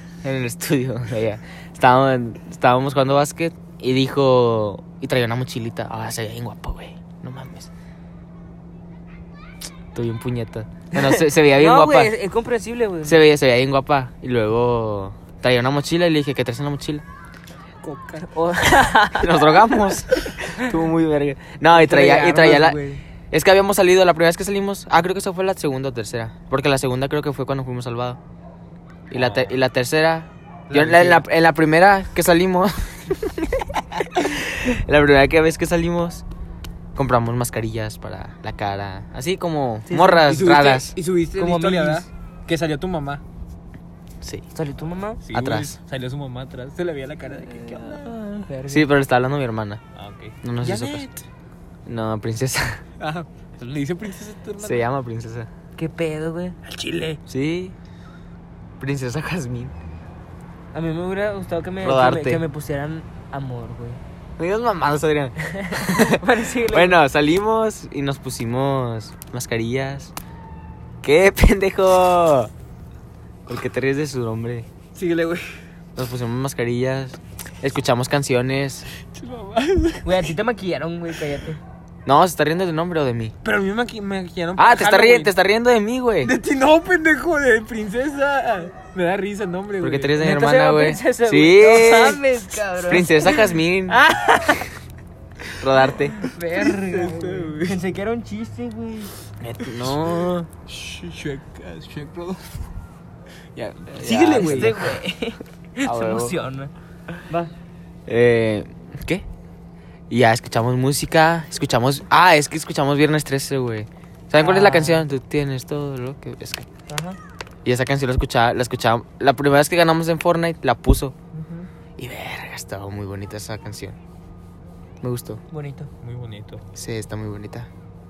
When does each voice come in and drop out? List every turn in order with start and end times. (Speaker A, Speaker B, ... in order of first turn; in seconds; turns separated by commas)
Speaker A: 0.2-7.7, Speaker A: 9.9-12.1, Speaker B: 10.9-13.2, Speaker A: 13.0-17.0, Speaker C: 17.8-18.3, Speaker B: 18.3-19.5, Speaker A: 19.1-22.8, Speaker C: 21.7-22.9, Speaker B: 21.8-23.0, Speaker A: 23.3-28.2, Speaker A: 29.1-36.2, Speaker C: 29.1-29.6, Speaker C: 30.7-31.2, Speaker A: 36.9-40.9, Speaker B: 39.9-40.3, Speaker C: 40.2-43.2, Speaker B: 41.4-42.1, Speaker B: 44.5-45.2, Speaker C: 45.2-48.5, Speaker A: 45.3-45.8, Speaker B: 47.4-48.9, Speaker A: 48.7-49.8, Speaker C: 49.9-51.2, Speaker A: 50.4-51.1, Speaker A: 51.9-52.8, Speaker C: 53.0-54.8, Speaker A: 54.6-55.5, Speaker B: 55.8-56.6, Speaker C: 56.6-57.2, Speaker A: 57.3-57.8, Speaker A: 58.8-59.7, Speaker B: 60.7-64.0, Speaker A: 61.8-62.4, Speaker A: 64.4-70.1, Speaker B: 65.4-67.0, Speaker A: 71.0-72.5, Speaker A: 73.5-74.7, Speaker C: 74.9-75.5, Speaker A: 76.0-78.9, Speaker C: 79.1-80.2, Speaker B: 80.0-81.6, Speaker A: 82.0-83.3, Speaker C: 83.4-85.3, Speaker A: 84.6-86.3, Speaker C: 86.2-90.2, Speaker A: 89.8-92.2, Speaker B: 90.2-94.7, Speaker A: 92.8-94.0, Speaker A: 95.6-96.2, Speaker B: 96.2-99.1, Speaker C: 96.4-97.8, Speaker A: 99.4-100.5, Speaker C: 99.7-100.1, Speaker C: 100.7-102.6, Speaker C: 103.5-104.8, Speaker B: 103.9-106.7, Speaker A: 104.1-104.8, Speaker A: 105.8-106.3, Speaker B: 107.3-107.5, Speaker A: 108.1-109.2, Speaker A: 110.1-116.7, Speaker B: 114.4-115.0, Speaker B: 116.9-117.2, Speaker A: 117.6-121.1, Speaker C: 121.4-121.6, Speaker A: 122.0-124.0, Speaker A: 125.0-125.4, Speaker B: 125.5-125.9, Speaker C: 126.0-126.6, Speaker A: 126.7-127.7